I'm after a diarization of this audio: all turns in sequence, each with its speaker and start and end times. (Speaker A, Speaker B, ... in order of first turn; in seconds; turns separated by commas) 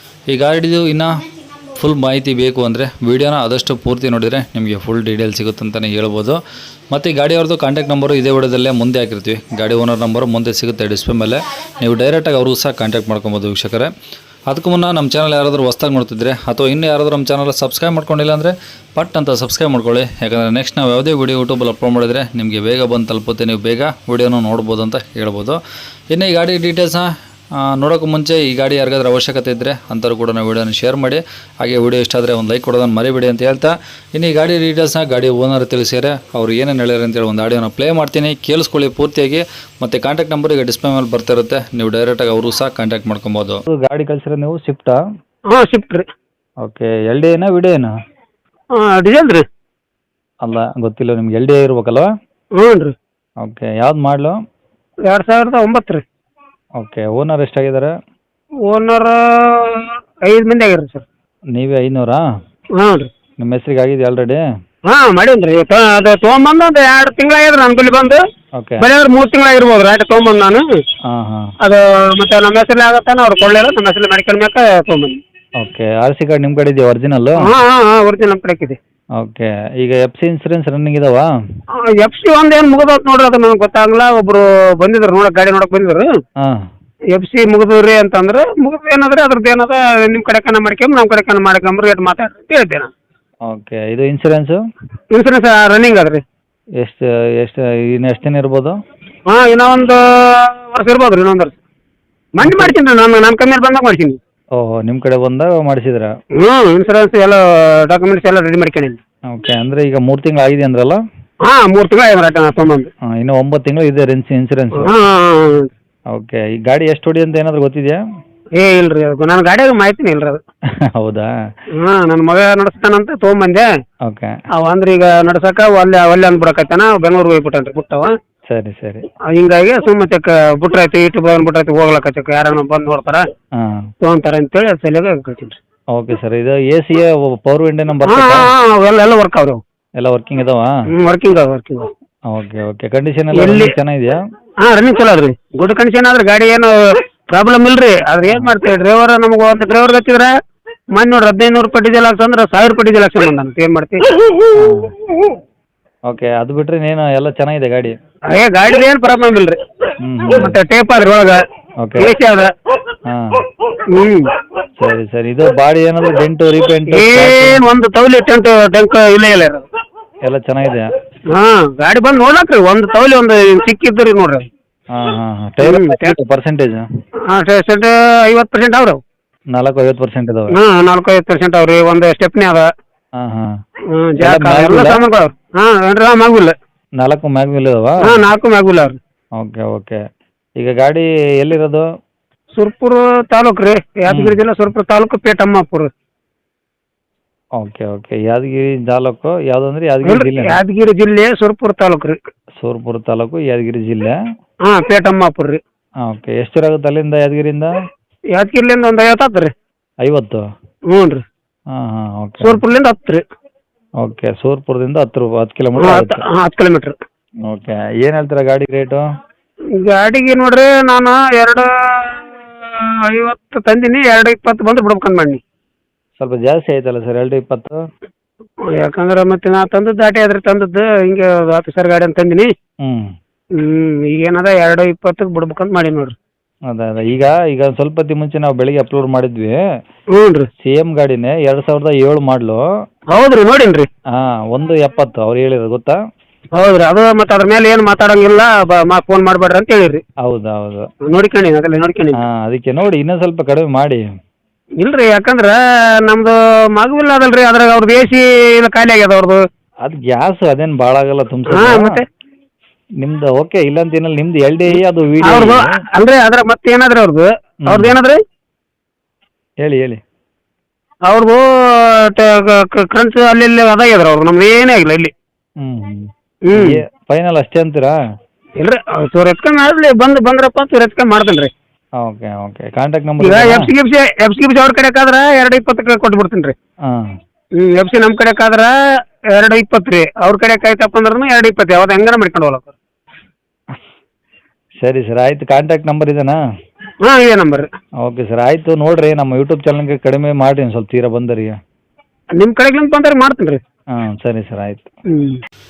Speaker A: 0.3-6.4, Speaker A: 6.9-13.9, Speaker A: 14.5-25.6, Speaker A: 26.1-27.1, Speaker A: 27.6-45.0, Speaker B: 45.5-46.1, Speaker A: 46.6-47.9, Speaker B: 48.7-49.4, Speaker A: 50.4-52.1, Speaker B: 52.5-52.9, Speaker A: 53.4-54.4, Speaker B: 55.0-56.0, Speaker A: 56.8-57.9, Speaker B: 58.6-61.0, Speaker A: 61.5-62.2, Speaker B: 62.8-63.1, Speaker A: 63.4-64.4, Speaker B: 64.8-68.2, Speaker A: 68.6-68.8, Speaker B: 68.8-70.6, Speaker A: 71.0-71.5, Speaker B: 71.6-75.2, Speaker A: 75.6-77.5, Speaker B: 77.4-78.8, Speaker A: 79.2-81.3, Speaker B: 81.8-86.1, Speaker A: 86.4-86.6, Speaker B: 87.1-92.9, Speaker A: 93.4-94.6, Speaker B: 95.1-96.2, Speaker A: 96.8-98.8, Speaker B: 99.3-101.5, Speaker B: 102.3-104.2, Speaker A: 102.4-102.7, Speaker A: 104.5-106.1, Speaker B: 106.4-109.0, Speaker A: 109.3-111.0, Speaker B: 111.4-112.9, Speaker A: 113.1-114.9, Speaker B: 114.8-115.7, Speaker A: 116.1-118.0, Speaker B: 118.6-120.4, Speaker A: 120.8-121.3, Speaker B: 121.7-123.7, Speaker A: 124.0-124.3, Speaker B: 124.5-128.1, Speaker A: 128.5-129.0, Speaker B: 129.2-133.2, Speaker A: 133.6-133.9, Speaker B: 134.0-135.6, Speaker A: 135.9-138.5, Speaker B: 138.0-139.6, Speaker A: 140.0-140.7, Speaker B: 140.9-141.9, Speaker A: 142.3-144.2, Speaker B: 143.3-143.7, Speaker B: 144.6-150.3, Speaker A: 148.3-148.5, Speaker B: 150.9-154.5, Speaker A: 154.6-154.9, Speaker A: 156.1-157.9, Speaker B: 158.3-159.6, Speaker A: 160.0-160.6, Speaker B: 160.3-161.4, Speaker A: 161.8-162.1, Speaker B: 162.0-162.5, Speaker A: 163.1-163.5, Speaker B: 163.9-164.3, Speaker A: 164.8-167.6, Speaker B: 166.9-169.6, Speaker A: 170.2-170.9, Speaker B: 171.3-174.4, Speaker A: 174.9-176.8, Speaker B: 175.6-176.1, Speaker B: 177.3-179.0, Speaker A: 179.5-180.6, Speaker B: 180.5-182.7, Speaker A: 183.2-183.5, Speaker B: 183.9-186.5, Speaker A: 184.2-185.0, Speaker A: 187.0-188.2, Speaker B: 188.0-189.0, Speaker A: 189.3-190.0, Speaker A: 190.6-191.8, Speaker B: 192.6-195.9, Speaker A: 194.1-194.4, Speaker A: 197.6-200.6, Speaker B: 200.0-202.2, Speaker A: 202.6-204.2, Speaker B: 204.7-205.6, Speaker A: 206.0-207.7, Speaker B: 208.3-209.5, Speaker A: 210.0-210.4, Speaker B: 210.9-211.2, Speaker A: 211.7-212.6, Speaker B: 212.4-213.2, Speaker A: 214.0-216.2, Speaker B: 215.8-216.9, Speaker A: 217.4-219.0, Speaker B: 219.7-225.4, Speaker A: 226.2-227.8, Speaker B: 228.7-232.5, Speaker A: 232.8-233.1, Speaker B: 233.5-236.1, Speaker A: 236.7-239.6, Speaker B: 240.1-240.5, Speaker A: 240.6-242.6, Speaker B: 243.1-243.9, Speaker A: 244.1-246.0, Speaker B: 246.5-250.0, Speaker A: 250.2-250.9, Speaker B: 251.1-252.2, Speaker A: 252.2-254.0, Speaker B: 254.8-259.4, Speaker A: 259.8-262.0, Speaker B: 261.5-262.0, Speaker A: 263.0-265.7, Speaker B: 265.2-268.2, Speaker A: 267.7-268.0, Speaker A: 269.6-270.0, Speaker B: 271.1-275.1, Speaker A: 275.6-277.9, Speaker B: 276.5-276.8, Speaker B: 278.6-281.5, Speaker A: 282.0-283.7, Speaker B: 283.2-286.5, Speaker A: 286.8-287.1, Speaker B: 287.6-288.7, Speaker B: 289.3-292.7, Speaker A: 294.8-296.4, Speaker B: 297.0-297.7, Speaker A: 298.0-301.6, Speaker B: 302.4-303.6, Speaker A: 303.9-304.9, Speaker B: 305.1-305.4